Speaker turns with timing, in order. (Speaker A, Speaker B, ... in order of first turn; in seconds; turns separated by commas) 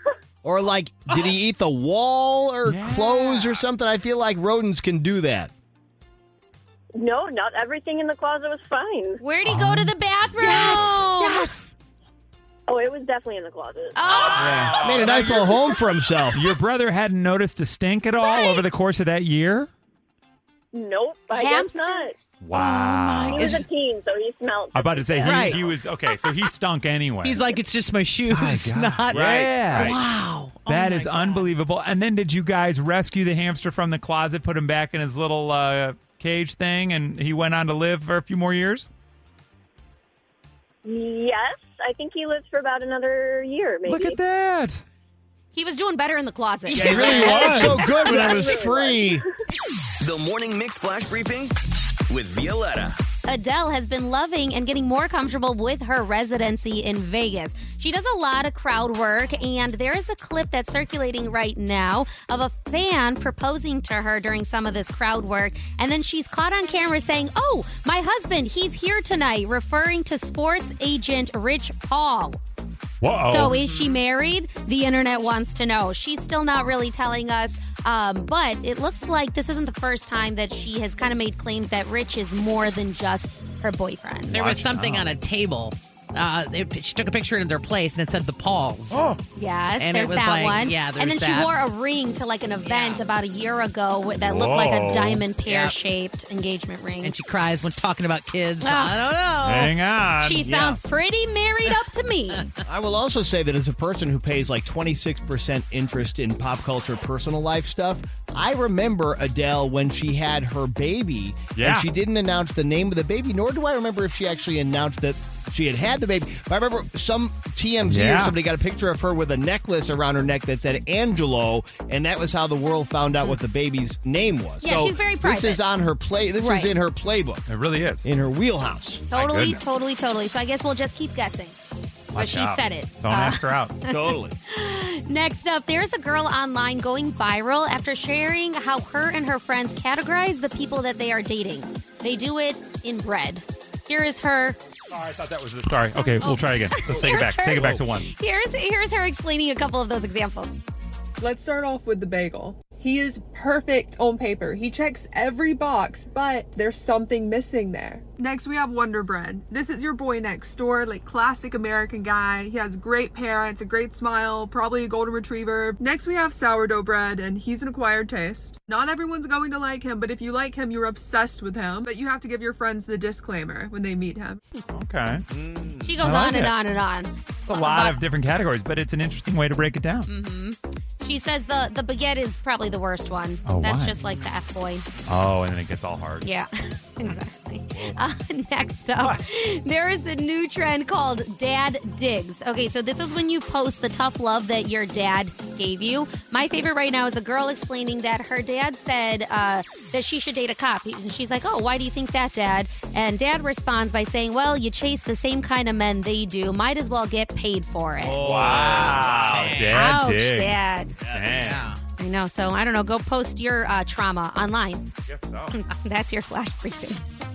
Speaker A: 0.4-5.5, Speaker B: 1.1-1.3, Speaker C: 2.6-3.6, Speaker D: 6.9-9.2, Speaker E: 9.2-11.5, Speaker C: 9.4-11.0, Speaker B: 10.3-11.7, Speaker D: 12.7-14.0, Speaker E: 13.9-14.8, Speaker C: 14.1-15.6, Speaker A: 14.3-16.6, Speaker C: 16.3-19.7, Speaker D: 20.7-22.2, Speaker E: 21.3-22.1, Speaker C: 22.4-23.6, Speaker B: 22.5-23.6, Speaker D: 23.3-25.4, Speaker C: 24.7-27.4, Speaker B: 25.2-25.6, Speaker B: 27.2-31.5, Speaker C: 28.3-30.0, Speaker A: 29.1-29.9, Speaker C: 30.6-38.9, Speaker D: 40.8-44.2, Speaker C: 43.9-44.8, Speaker E: 45.5-48.2, Speaker A: 46.7-49.2, Speaker C: 46.8-47.8, Speaker D: 47.0-49.2, Speaker F: 50.0-51.5, Speaker F: 52.1-53.0, Speaker E: 53.2-72.4, Speaker C: 73.0-73.6, Speaker E: 73.2-84.6, Speaker B: 84.3-89.1, Speaker C: 84.3-85.2, Speaker C: 88.9-89.2, Speaker E: 89.3-97.1, Speaker B: 89.8-91.5, Speaker B: 92.6-93.0, Speaker C: 94.2-95.2, Speaker B: 95.5-95.8, Speaker B: 97.0-99.7, Speaker E: 98.6-99.1, Speaker C: 99.4-100.5, Speaker E: 100.2-102.5, Speaker A: 100.4-100.8, Speaker A: 102.7-127.4, Speaker C: 111.5-111.9, Speaker C: 117.8-118.4, Speaker E: 124.6-125.6, Speaker E: 126.4-126.7, Speaker C: 127.5-128.1, Speaker A: 128.0-129.0, Speaker E: 129.1-131.6, Speaker C: 129.1-129.6, Speaker C: 132.1-133.8, Speaker E: 132.1-144.6, Speaker A: 133.9-134.3, Speaker C: 144.9-148.1, Speaker E: 146.0-150.6, Speaker G: 151.2-174.4, Speaker C: 174.7-176.6, Speaker E: 175.8-178.0, Speaker C: 177.5-180.1, Speaker E: 180.1-184.9, Speaker C: 183.4-184.0, Speaker C: 185.1-186.3, Speaker E: 186.2-208.2, Speaker A: 208.0-209.6, Speaker C: 208.2-211.7, Speaker B: 208.7-209.8, Speaker E: 209.7-210.9, Speaker A: 211.0-211.4, Speaker B: 211.3-211.8, Speaker E: 212.0-214.9, Speaker C: 215.1-215.5, Speaker E: 215.5-217.0